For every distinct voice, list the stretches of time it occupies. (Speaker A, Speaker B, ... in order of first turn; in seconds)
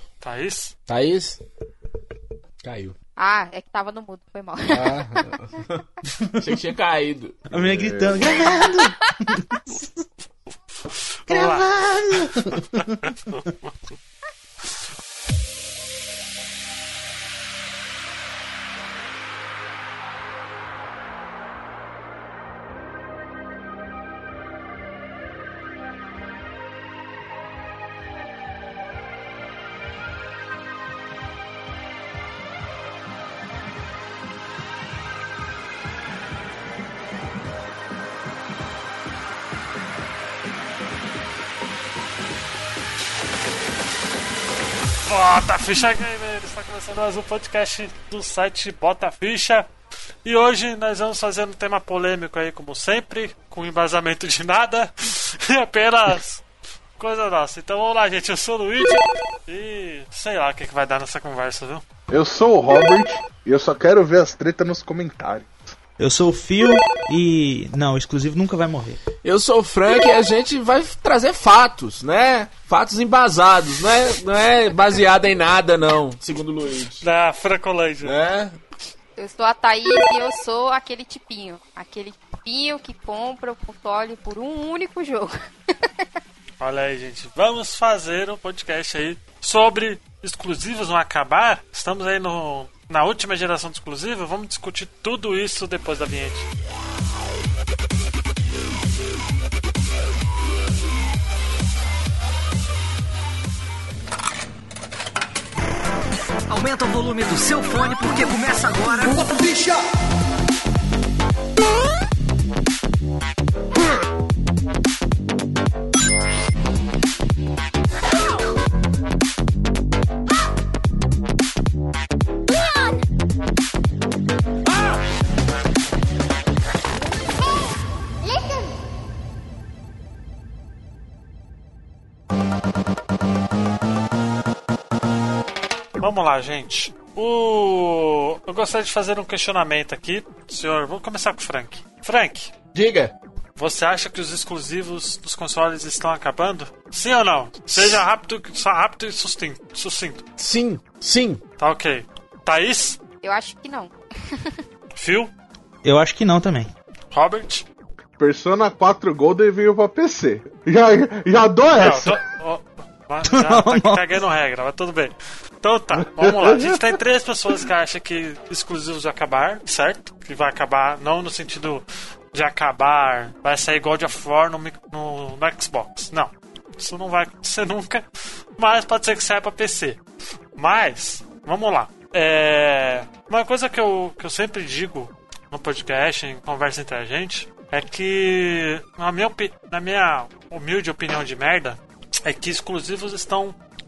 Speaker A: 0.2-0.7, 10.9-11.7, 12.5-13.4, 45.0-49.7, 50.2-56.4, 57.0-61.8, 77.0-78.2, 86.6-96.5, 136.0-142.5, 143.6-150.2, 151.6-153.0, 154.9-155.3, 157.1-157.6, 161.8-178.0, 178.6-180.0, 180.6-193.6
Speaker B: 0.9-1.4, 2.6-3.0, 4.7-7.4, 69.2-77.0, 78.0-78.6, 142.7-143.1, 150.4-151.4
Speaker C: 3.2-5.3, 79.2-86.0, 153.2-154.6
Speaker D: 7.5-8.7, 62.1-65.7, 158.2-162.2, 166.2-166.8
Speaker E: 7.5-9.7, 11.3-12.8, 66.0-69.0, 155.8-156.7, 163.3-164.1
Speaker F: 106.5-109.7